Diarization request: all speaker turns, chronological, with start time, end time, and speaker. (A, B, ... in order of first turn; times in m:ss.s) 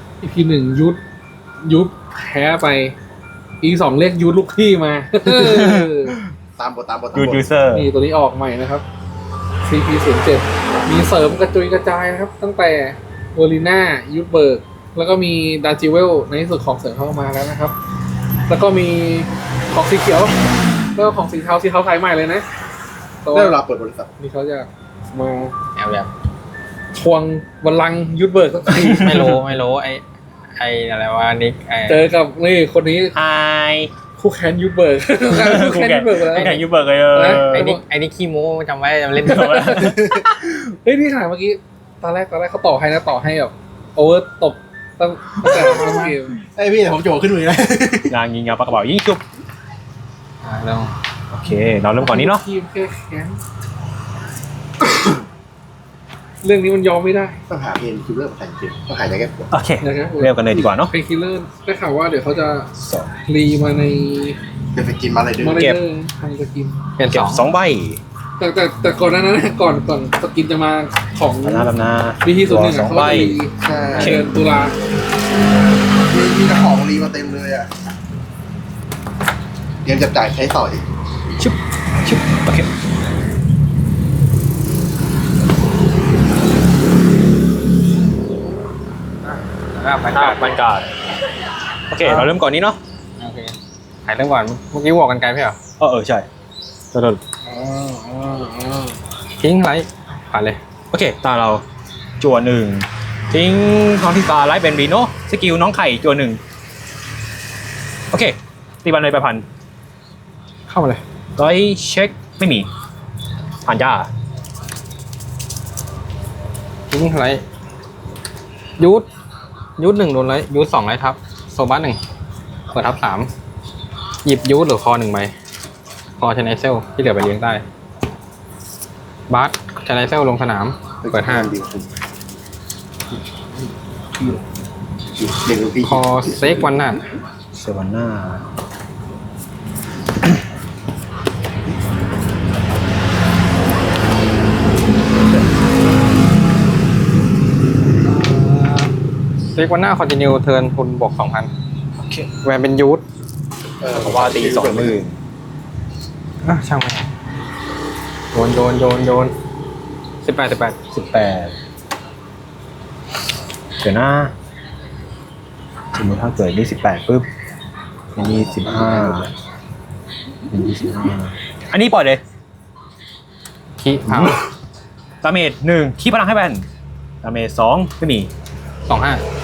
0:00.2-0:01.0 A
0:01.6-0:03.0 A
0:03.6-0:06.2 A
0:05.2-0:06.2 B
0:06.6-0:07.4 C
0:07.1-0:07.9 B
0:07.7-0:08.8 A
0:09.6-0:17.8 A
0:18.5-0:20.4 A
0:21.0-0:22.4 A
0:23.2-0:23.6 A
0:23.3-0:24.1 C
0:24.2-0:25.6 A
0:25.8-0:26.1 D
0:26.9-0:29.4 A
0:28.8-0:30.0 D
0:30.6-0:32.1 D
0:31.9-0:33.2 A
0:33.2-0:33.9 B
0:34.2-0:36.6 A
0:35.3-0:37.7 B
0:37.1-0:37.8 A
0:37.4-0:39.8 D
0:39.2-0:40.1 B
0:39.2-0:46.4 A
0:39.9-0:40.2 C
0:46.4-0:48.1 C
0:48.1-0:49.2 B
0:50.4-0:51.0 D
0:51.3-0:52.4 B
0:52.0-0:53.4 A
0:56.4-0:57.4 A
0:57.5-0:59.5 C
0:59.5-1:00.9 B
0:59.8-1:04.4 A
1:02.8-1:03.1 B
1:04.7-1:05.6 C
1:05.4-1:06.8 A
1:07.0-1:07.4 D
1:07.1-1:08.0 B
1:08.4-1:11.7 A
1:11.4-1:13.4 B
1:12.2-1:14.8 A
1:13.6-1:14.2 C
1:14.0-1:14.3 B
1:16.1-1:17.7 C
1:19.8-1:20.8 C
1:21.4-1:22.7 B
1:29.2-1:30.4 D
1:30.1-1:30.9 B
1:31.9-1:32.8 B
1:32.0-1:32.3 D
1:33.2-1:35.6 D
1:35.8-1:36.3 B
1:36.9-1:37.2 B
1:37.4-1:39.0 A
1:39.4-1:40.6 D
1:40.9-1:41.6 B
1:42.2-1:46.4 B
1:48.1-1:49.4 B
1:50.7-1:51.0 D
1:51.4-1:52.7 B
1:53.6-1:54.1 B
1:56.9-1:57.4 D
1:58.8-1:59.1 D
1:59.8-2:02.0 D
2:02.7-2:03.3 D
2:04.2-2:05.3 D
2:06.2-2:07.6 D
2:09.3-2:11.5 D
2:11.0-2:11.9 C
2:15.1-2:16.7 C
2:15.8-2:17.0 D
2:17.6-2:18.5 B
2:28.0-2:28.9 D
2:29.4-2:31.5 D
2:32.0-2:32.3 B
2:32.4-2:33.0 D
2:33.8-2:35.0 C
2:33.9-2:35.2 B
2:36.4-2:37.1 D
2:38.3-2:39.3 D
2:40.2-2:40.8 D
2:40.9-2:41.6 B
2:43.8-2:44.3 B
2:45.9-2:47.3 B
2:48.2-2:49.3 B
2:48.3-2:48.9 C
2:50.5-2:52.2 B
2:53.8-2:54.4 D
2:54.1-2:54.4 B
2:55.2-2:56.6 B
2:57.2-2:58.3 B
2:58.9-2:59.2 D